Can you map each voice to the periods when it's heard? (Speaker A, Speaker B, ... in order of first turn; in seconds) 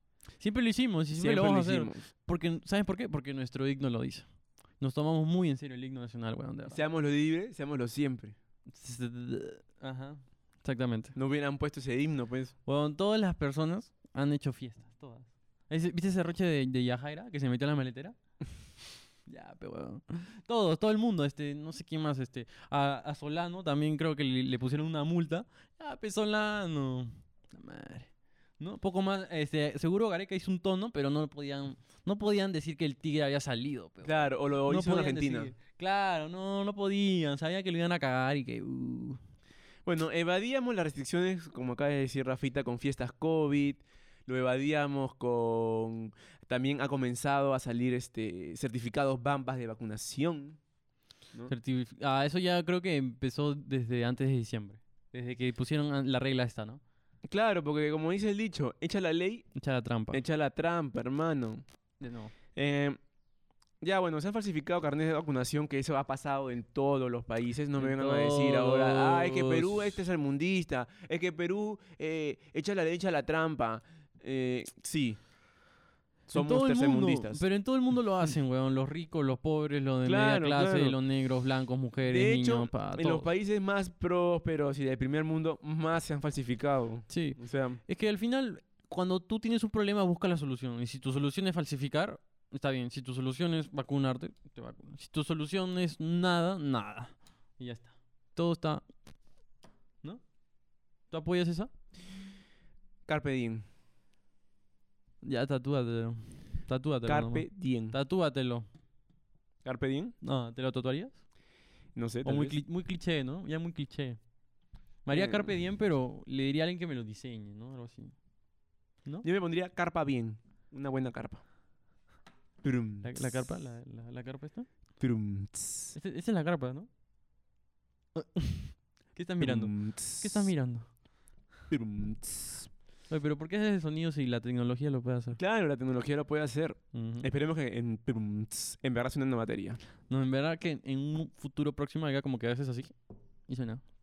Speaker A: 0.4-4.3, 4.8-6.8, 8.7-11.1, 12.7-18.1, 19.2-39.2, 51.5-56.8, 59.5-60.2, 62.0-62.3, 67.8-70.0, 76.3-83.3, 87.1-98.8, 101.1-101.7, 105.2-108.7, 110.2-111.2, 112.2-114.2, 115.0-118.1, 123.0-124.7, 125.9-126.9, 128.1-130.9, 133.1-135.4, 136.9-137.3, 140.1-142.9, 143.5-143.8
Speaker B: 1.1-2.1, 6.7-8.3, 11.2-12.5, 34.0-35.5, 39.9-50.6, 57.3-59.5, 60.1-61.6, 62.5-63.0, 63.8-75.2, 76.3-77.4, 80.0-81.0, 82.1-87.8, 103.1-103.6, 107.0-108.0, 109.6-110.1, 112.0-112.6, 115.1-115.5, 119.2-121.4, 122.6-123.5, 125.0-126.0, 129.4-130.5, 131.7-132.7, 135.4-139.8